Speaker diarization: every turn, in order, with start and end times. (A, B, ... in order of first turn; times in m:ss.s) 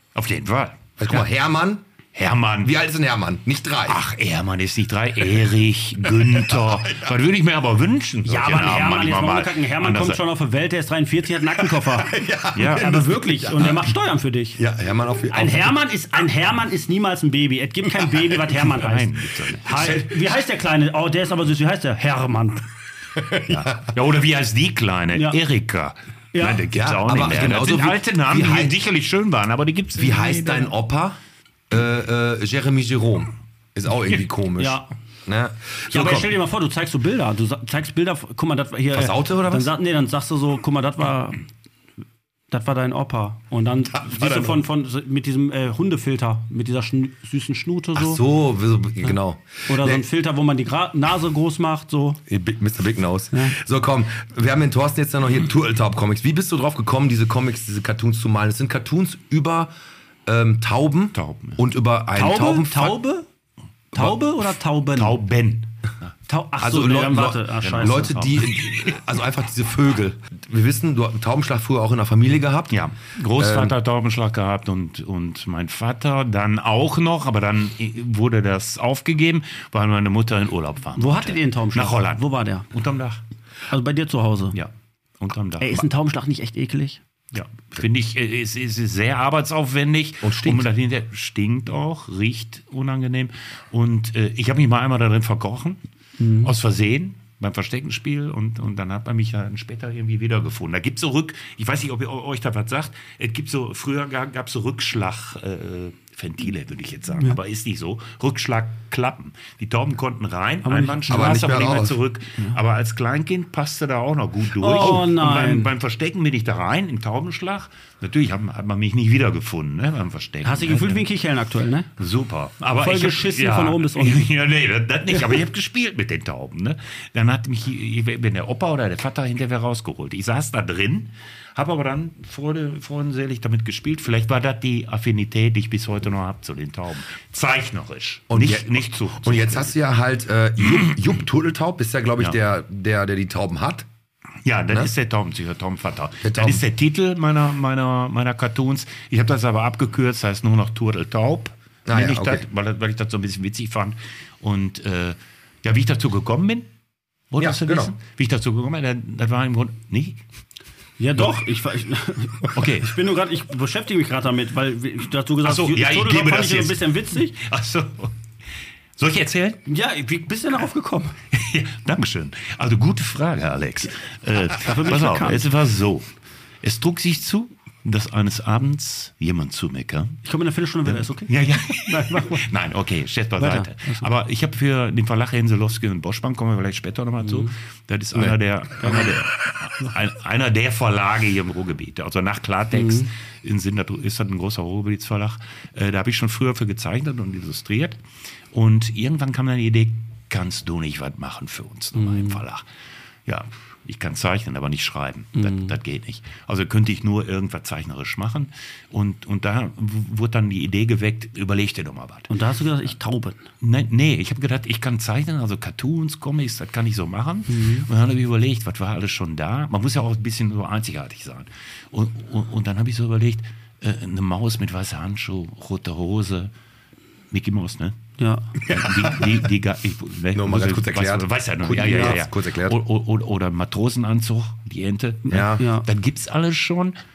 0:00.1-0:01.2 A
0:01.0-0:01.8 B
0:02.1-0:02.7 A
0:02.6-0:04.0 B
0:03.9-0:10.2 A
0:06.2-0:07.1 B
0:08.2-0:12.1 C
0:11.6-0:13.8 B
0:12.5-0:13.0 A
0:12.7-0:14.6 C
0:14.6-0:15.8 B
0:15.3-0:19.1 C
0:18.5-0:20.0 A
0:19.6-0:22.6 C
0:19.8-0:20.0 B
0:23.2-0:23.9 B
0:23.5-0:30.7 A
0:26.3-0:26.6 C
0:26.7-0:28.8 B
0:30.0-0:31.2 B
0:31.7-0:36.3 B
0:34.6-0:34.9 C
0:35.9-0:41.4 C
0:38.9-0:39.7 B
0:42.5-0:48.2 C
0:44.0-0:44.6 B
0:48.0-0:50.0 B
0:49.7-0:52.2 C
0:52.3-0:59.7 B
1:00.2-1:03.0 B
1:01.1-1:01.6 A
1:02.1-1:03.2 C
1:03.9-1:05.2 C
1:04.9-1:06.1 A
1:06.3-1:08.2 C
1:06.6-1:12.8 B
1:07.6-1:08.9 A
1:12.7-1:23.2 A
1:13.3-1:13.7 B
1:21.0-1:22.7 C
1:23.7-1:24.6 C
1:24.5-1:25.9 A
1:25.6-1:27.0 C
1:27.3-1:35.8 A
1:30.2-1:30.7 B
1:36.2-1:36.5 C
1:36.4-2:01.0 A
1:50.6-1:51.4 C
1:51.1-1:52.0 B
1:54.6-1:55.7 C
2:00.4-2:01.9 C
2:02.0-2:19.7 A
2:02.8-2:04.3 C
2:05.1-2:05.4 C
2:18.3-2:23.9 B
2:24.4-2:36.7 A
2:26.2-2:26.6 B
2:31.9-2:32.4 B
2:37.3-2:40.2 A
2:37.4-2:37.9 B
2:41.0-2:47.4 C
2:42.5-2:42.9 A
2:45.4-2:48.1 A
2:49.0-2:49.6 A
2:49.7-2:51.2 C
2:51.3-2:56.1 A
2:54.6-2:55.4 C
2:56.6-3:00.2 A
3:00.2-3:02.4 C
3:00.9-3:18.0 A
3:03.4-3:04.1 C
3:07.2-3:07.5 C
3:08.8-3:09.1 C
3:12.7-3:13.1 C
3:18.5-3:22.6 A
3:22.0-3:22.4 C
3:23.2-3:32.3 A
3:25.4-3:25.7 C
3:32.3-3:33.4 C
3:33.6-3:46.5 A
3:37.5-3:37.9 C
3:47.3-3:48.0 A
3:48.2-3:48.5 C
3:48.6-3:57.0 A
3:48.7-3:49.3 B
3:50.3-3:52.8 B
3:51.8-3:52.1 C
3:55.3-3:55.8 C
3:55.3-3:55.6 B